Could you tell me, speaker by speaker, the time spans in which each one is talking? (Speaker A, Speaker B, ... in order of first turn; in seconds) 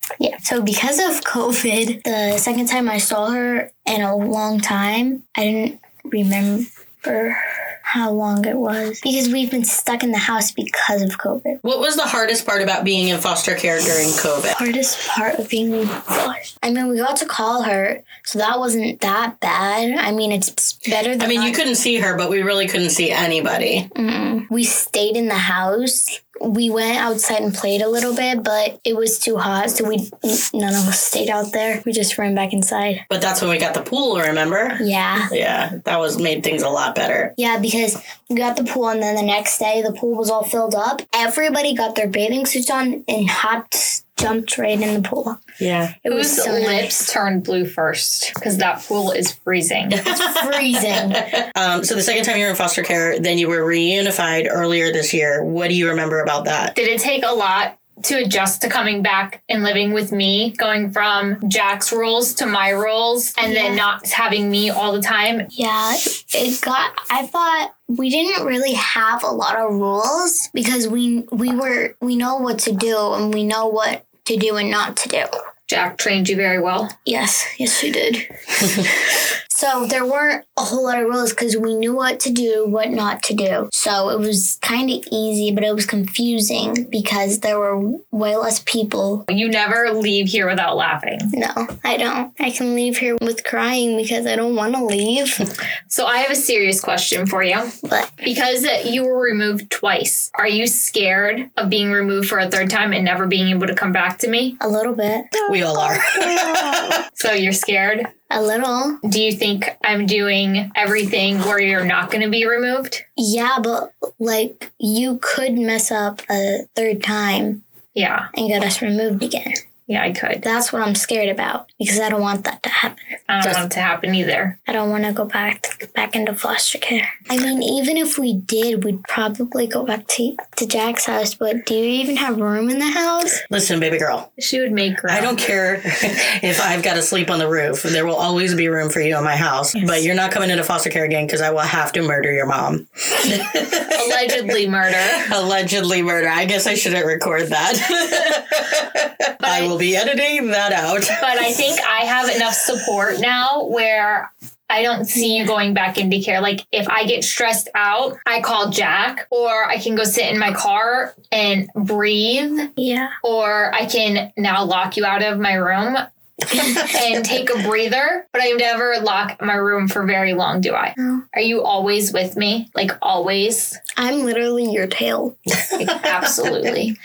Speaker A: 0.2-11.6, 14.6-21.6, 23.9-33.0, 34.8-35.3, 37.4-45.4, 46.0-47.0, 50.0-51.2, 63.4-63.8, 65.5-75.3, 77.1-78.9, 79.5-89.3, 91.3-95.5, 97.8-98.2, 104.6-107.0, 108.3-109.0, 113.2-117.6, 118.3-119.6, 120.4-123.0, 124.7-133.4, 155.2-155.5, 162.8-163.1, 171.0-171.2, 174.0-175.4
Speaker B: 11.6-14.6, 21.2-23.9, 33.1-37.3, 45.6-46.0, 50.0-56.7, 105.5-107.0, 133.5-134.3, 135.1-144.3, 145.2-151.5
Speaker C: 46.1-50.0, 56.8-65.5, 75.7-76.9, 89.3-91.3, 95.9-97.7, 98.2-104.6, 107.2-108.1, 109.0-113.0, 118.0-118.3, 119.9-120.5, 123.3-124.6, 134.4-135.4, 143.9-145.3, 149.4-149.7, 151.2-162.7, 163.2-166.0, 166.8-173.8, 175.8-176.9